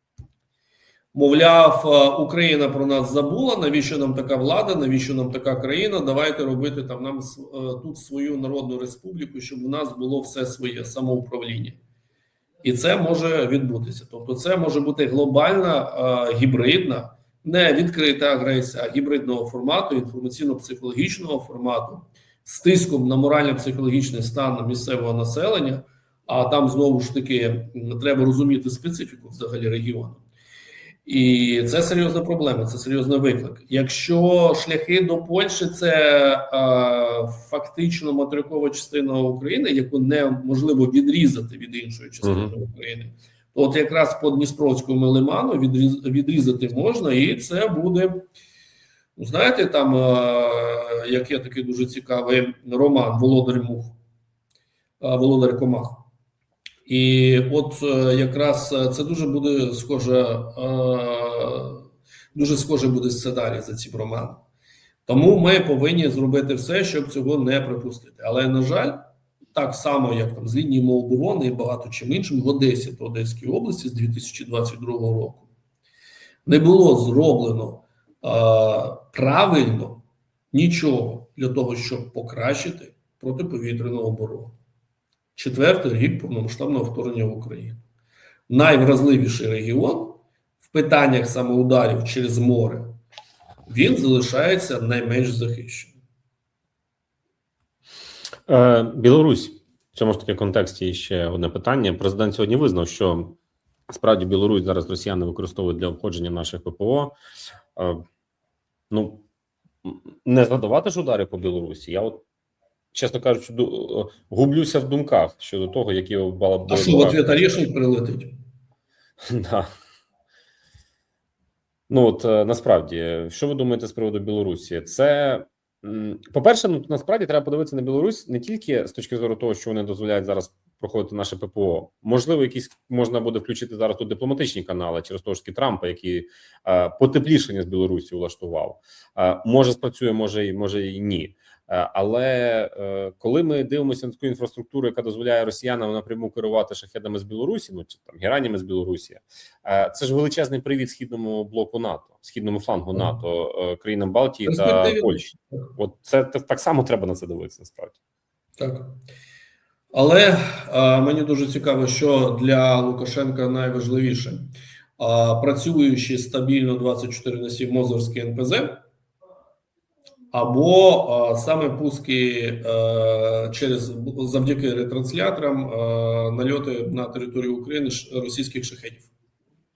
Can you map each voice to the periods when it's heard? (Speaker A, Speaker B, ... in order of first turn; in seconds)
Speaker A: 1.1-11.8, 12.6-30.2, 31.1-48.2, 49.2-54.0, 55.0-56.0, 56.9-61.8, 62.3-64.4, 65.1-69.0, 69.5-75.5, 76.5-84.6, 85.4-87.8, 88.5-93.0, 93.7-95.9, 116.7-118.3, 154.5-155.7, 158.6-158.9, 159.9-168.8, 170.3-179.1
Speaker B: 42.2-42.5, 98.5-103.4, 103.9-107.2, 107.8-108.0, 108.9-109.2, 109.8-112.2, 112.9-117.4, 119.3-119.7, 121.9-158.0